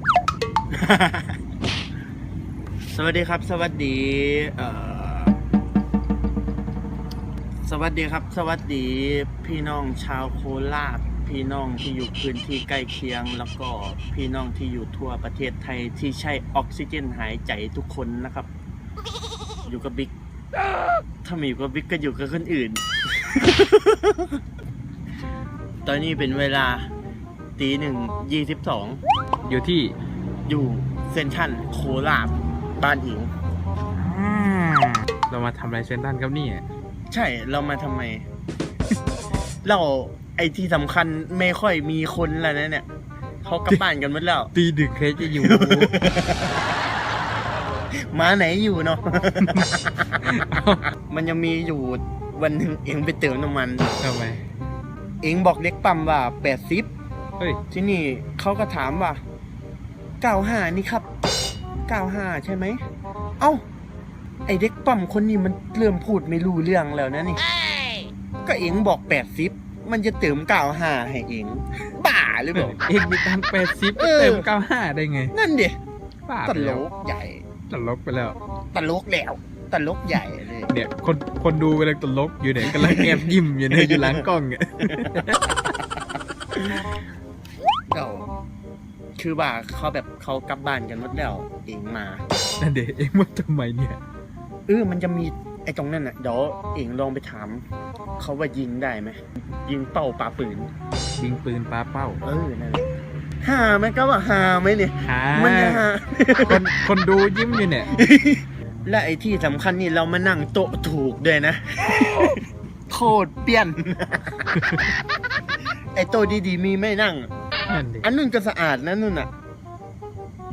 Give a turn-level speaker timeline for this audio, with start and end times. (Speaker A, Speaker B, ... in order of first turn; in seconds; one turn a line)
Speaker A: 0.7-1.4
Speaker A: 2.9-5.3
Speaker A: 7.7-18.5
Speaker A: 19.6-20.1
Speaker A: 21.2-24.3
Speaker A: 25.8-26.9
Speaker A: 27.6-29.0
Speaker B: 29.4-29.9
Speaker A: 30.5-33.3
Speaker B: 33.9-36.6
Speaker A: 37.1-38.2
Speaker A: 39.6-42.9
Speaker A: 43.4-44.5
Speaker B: 44.5-46.0
Speaker A: 45.2-46.6
Speaker A: 48.1-50.3
Speaker B: 49.4-50.9
Speaker A: 51.1-53.9
Speaker B: 54.0-54.4
Speaker A: 55.2-56.9
Speaker A: 57.7-59.2
Speaker A: 60.2-61.1
Speaker A: 61.9-62.8
Speaker A: 64.5-67.4
Speaker A: 68.4-72.8
Speaker B: 72.5-75.3
Speaker A: 73.9-74.5
Speaker A: 75.3-75.8
Speaker B: 76.3-76.8
Speaker A: 76.4-77.4
Speaker B: 77.7-78.4
Speaker A: 78.7-80.7
Speaker B: 80.7-85.7
Speaker A: 82.6-84.2
Speaker A: 84.9-85.2
Speaker A: 87.9-88.3
Speaker A: 89.2-92.2
Speaker B: 92.6-94.0
Speaker A: 94.7-97.6
Speaker A: 98.2-100.7
Speaker B: 101.2-102.2
Speaker A: 102.2-102.8
Speaker A: 103.4-106.7
Speaker B: 105.0-107.9
Speaker A: 107.9-114.5
Speaker B: 114.5-114.9
Speaker A: 115.9-117.3
Speaker B: 117.7-118.1
Speaker A: 118.0-119.3